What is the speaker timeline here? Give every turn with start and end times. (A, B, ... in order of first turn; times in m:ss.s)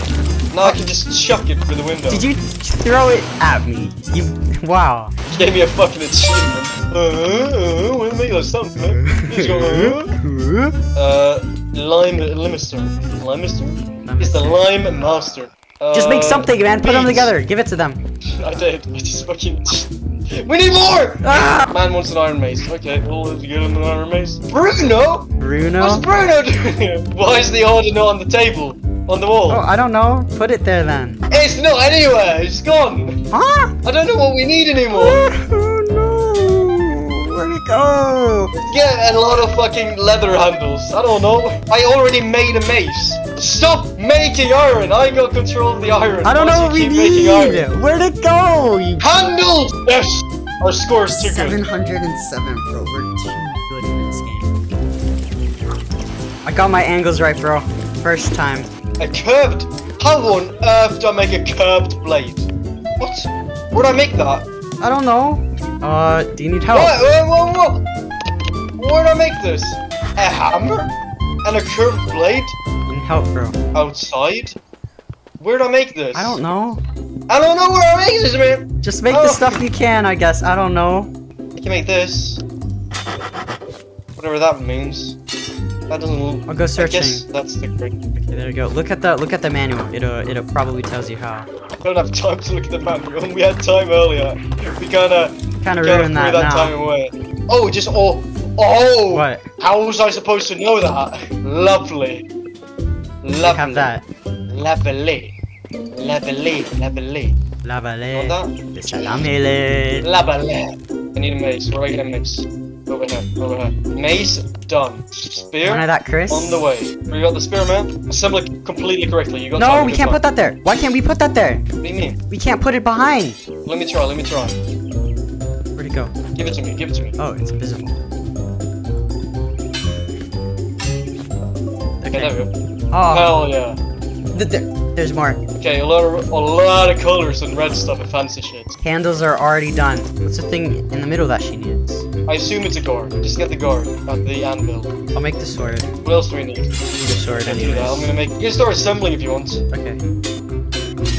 0:00.5-0:02.3 A
0:02.1-0:05.1 B
0:05.3-0:10.2 A
0:08.9-0:10.7 B
0:10.9-0:17.3 A
0:14.0-0:14.6 B
0:15.9-0:18.0 B
0:18.4-0:29.6 A
0:21.2-0:21.7 B
0:25.4-0:26.1 B
0:29.5-0:31.2 B
0:31.3-0:33.2 A
0:33.3-0:33.7 B
0:33.8-0:35.3 A
0:34.9-0:38.5 B
0:38.5-0:47.8 A
0:46.2-0:49.1 B
0:49.0-0:51.7 A
0:51.1-0:54.5 B
0:56.4-0:58.7 B
0:59.0-1:02.5 A
1:03.0-1:04.5 A
1:04.8-1:07.0 B
1:06.7-1:07.8 A
1:08.8-1:10.9 A
1:11.4-1:12.5 A
1:12.9-1:13.6 B
1:13.7-1:14.6 A
1:15.4-1:16.4 A
1:16.1-1:16.8 B
1:17.3-1:19.6 A
1:18.8-1:21.1 B
1:21.6-1:22.4 A
1:24.2-1:25.2 A
1:25.9-1:28.0 A
1:26.5-1:27.2 B
1:28.2-1:31.5 B
1:31.8-1:42.2 A
1:35.6-1:36.7 B
1:39.1-1:39.4 B
1:43.2-1:43.9 A
1:43.4-1:44.0 B
1:44.5-1:45.3 A
1:45.9-1:47.4 A
1:47.6-1:50.1 B
1:48.1-1:49.2 A
1:50.0-2:00.2 A
1:55.6-1:56.6 B
1:59.6-2:01.6 B
2:01.8-2:02.2 A
2:02.3-2:03.4 B
2:03.6-2:04.6 A
2:05.8-2:06.1 B
2:06.3-2:07.2 A
2:07.2-2:07.9 B
2:12.0-2:12.3 B
2:12.1-2:12.5 A
2:12.9-2:13.5 B
2:13.1-2:13.8 A
2:14.3-2:15.4 B
2:15.6-2:18.8 A
2:18.8-2:22.0 B
2:22.3-2:24.9 A
2:25.1-2:25.9 B
2:26.0-2:29.6 A
2:27.0-2:28.1 B
2:29.7-2:30.0 B